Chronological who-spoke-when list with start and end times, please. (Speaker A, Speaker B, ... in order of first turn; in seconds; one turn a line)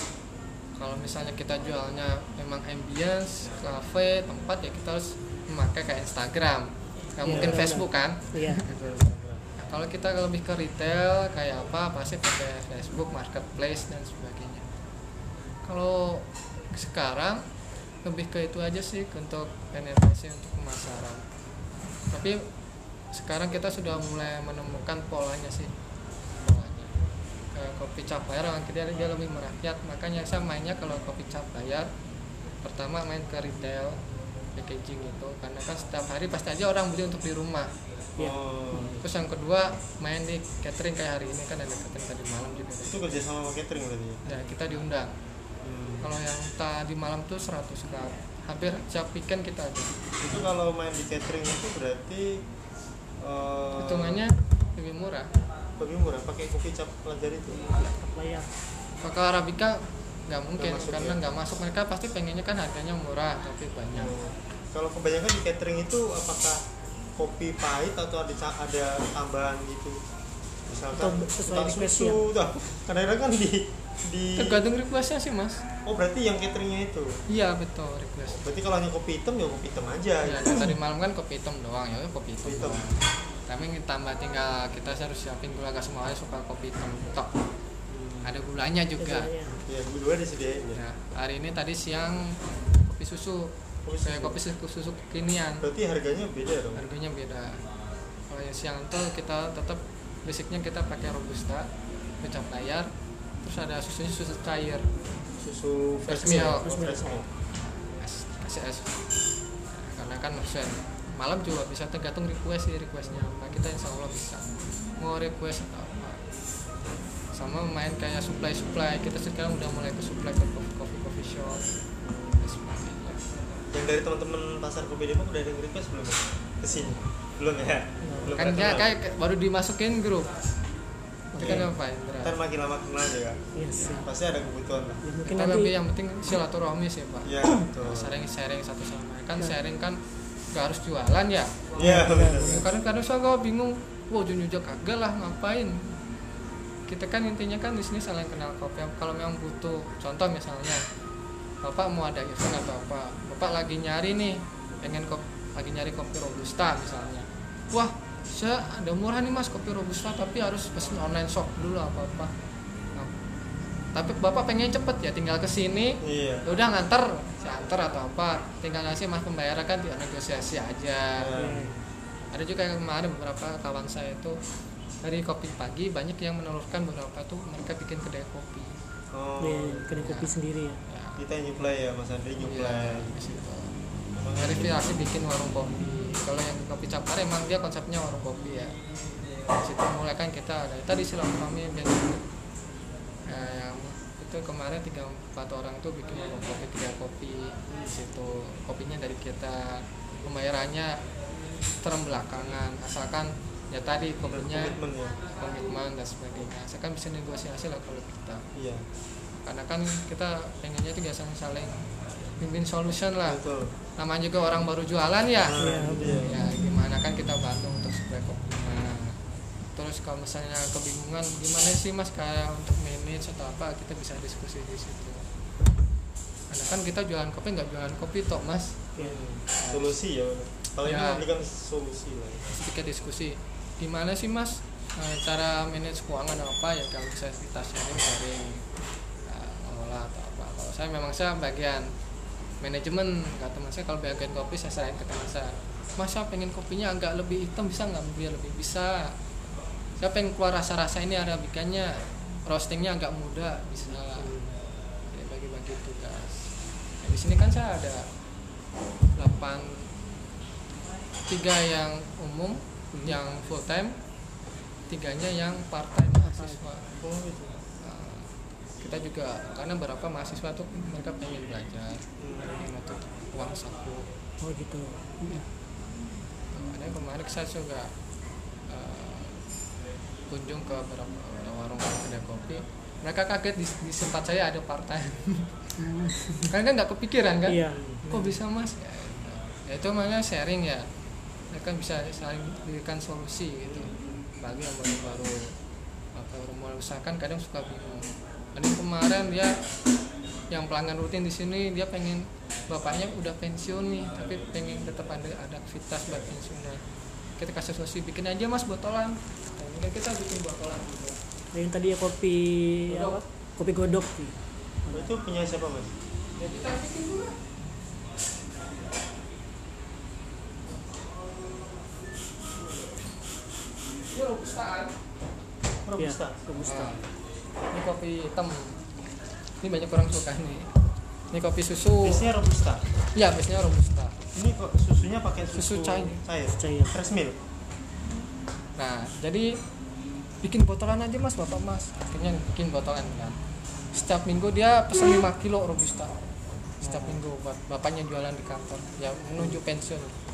Speaker A: 0.8-8.7
Speaker B: 7.2-7.7
Speaker C: 7.2-8.6
Speaker B: 8.6-9.5
Speaker A: 9.6-14.6
Speaker A: 15.7-17.4
Speaker A: 18.0-21.2
Speaker A: 22.1-22.4
Speaker A: 23.1-25.7
Speaker A: 26.4-26.9
Speaker A: 27.5-31.9
Speaker A: 32.6-34.0
Speaker A: 34.5-37.7
Speaker C: 38.2-39.0
Speaker B: 38.2-39.0
Speaker A: 39.0-43.0
Speaker B: 42.9-44.2
Speaker A: 44.2-45.1
Speaker B: 45.6-46.1
Speaker A: 46.0-50.0
Speaker B: 50.2-52.5
Speaker B: 53.2-54.2
Speaker A: 53.8-55.3
Speaker B: 55.8-57.6
Speaker C: 57.8-58.5
Speaker A: 59.0-64.1
Speaker B: 60.6-61.2
Speaker B: 63.9-66.6
Speaker B: 67.2-70.0
Speaker B: 70.7-74.6
Speaker C: 70.9-72.2
Speaker A: 74.4-75.6
Speaker B: 75.8-77.2
Speaker A: 77.3-78.4
Speaker B: 78.3-80.7
Speaker A: 80.2-87.3
Speaker B: 82.4-82.8
Speaker B: 87.9-88.3
Speaker A: 88.2-89.3
Speaker C: 89.0-89.6
Speaker B: 89.7-90.8
Speaker A: 90.7-95.6
Speaker B: 93.8-94.4
Speaker B: 95.6-96.8
Speaker A: 96.8-97.6
Speaker A: 98.3-101.7
Speaker A: 102.2-102.9
Speaker A: 103.4-104.9
Speaker B: 105.4-107.3
Speaker A: 106.0-106.7
Speaker C: 106.2-107.2
Speaker A: 108.0-108.9
Speaker A: 109.7-116.2
Speaker A: 117.3-121.6
Speaker B: 122.0-122.5
Speaker A: 122.4-123.2
Speaker B: 123.7-128.9
Speaker C: 128.0-128.3
Speaker A: 128.3-130.3
Speaker A: 131.3-132.3
Speaker B: 131.4-133.4
Speaker C: 133.6-134.1
Speaker A: 133.8-134.1
Speaker B: 134.0-135.0
Speaker C: 135.0-135.7
Speaker A: 135.2-140.0
Speaker B: 137.2-138.2
Speaker A: 140.5-141.8
Speaker B: 141.8-142.6
Speaker C: 141.8-142.7
Speaker A: 142.4-145.9
Speaker A: 146.9-150.8
Speaker A: 151.6-162.3
Speaker A: 163.9-171.4
Speaker B: 166.0-166.4
Speaker B: 171.2-171.8
Speaker C: 171.3-171.8
Speaker A: 172.3-174.4
Speaker A: 175.0-178.7
Speaker B: 179.1-180.1
Speaker C: 179.4-180.8
Speaker A: 180.0-180.3
Speaker A: 180.9-181.2
Speaker B: 181.2-183.1
Speaker A: 182.4-183.7
Speaker B: 184.2-184.9
Speaker A: 184.4-188.8
Speaker A: 189.5-192.2
Speaker A: 193.2-200.9
Speaker B: 197.7-197.9
Speaker A: 201.8-204.8
Speaker B: 204.3-205.2
Speaker A: 205.4-208.4
Speaker B: 208.5-208.8
Speaker A: 209.4-211.8
Speaker A: 212.4-213.4
Speaker B: 213.2-213.7
Speaker A: 214.0-219.2
Speaker B: 215.4-216.4
Speaker C: 215.6-216.3
Speaker A: 219.8-225.2
Speaker A: 226.5-228.9
Speaker B: 229.0-232.5
Speaker A: 229.6-229.9
Speaker A: 230.8-231.3
Speaker A: 232.5-238.7
Speaker A: 239.2-241.9
Speaker A: 242.6-249.1
Speaker A: 250.0-254.3
Speaker B: 254.2-254.6
Speaker A: 255.1-256.5
Speaker A: 257.0-258.0
Speaker A: 259.1-259.8
Speaker A: 261.3-263.9
Speaker C: 262.9-263.2
Speaker A: 264.9-266.9
Speaker C: 266.2-266.6
Speaker B: 267.0-267.6
Speaker A: 267.8-274.1
Speaker B: 272.2-272.6
Speaker C: 274.4-275.4
Speaker A: 276.5-277.9
Speaker A: 278.7-279.4
Speaker A: 280.3-285.5
Speaker C: 285.8-286.5
Speaker A: 286.4-290.9
Speaker C: 287.4-288.4
Speaker B: 287.7-288.0
Speaker A: 291.5-295.5
Speaker B: 293.7-294.1
Speaker A: 296.1-299.6
Speaker A: 300.5-306.8
Speaker A: 307.4-311.2
Speaker C: 311.5-315.1
Speaker A: 312.9-313.2
Speaker B: 314.9-315.9
Speaker A: 316.3-317.4
Speaker A: 324.1-324.9
Speaker B: 325.8-326.4
Speaker C: 326.0-327.0
Speaker A: 326.6-327.0
Speaker A: 327.7-328.8
Speaker A: 329.6-330.7
Speaker A: 331.3-332.3
Speaker B: 332.0-332.8
Speaker A: 333.1-334.2
Speaker B: 334.3-337.4
Speaker A: 335.5-336.2
Speaker C: 336.5-337.0
Speaker A: 338.8-339.5
Speaker A: 340.4-343.4
Speaker A: 343.9-346.1
Speaker C: 346.8-347.2
Speaker A: 346.8-350.1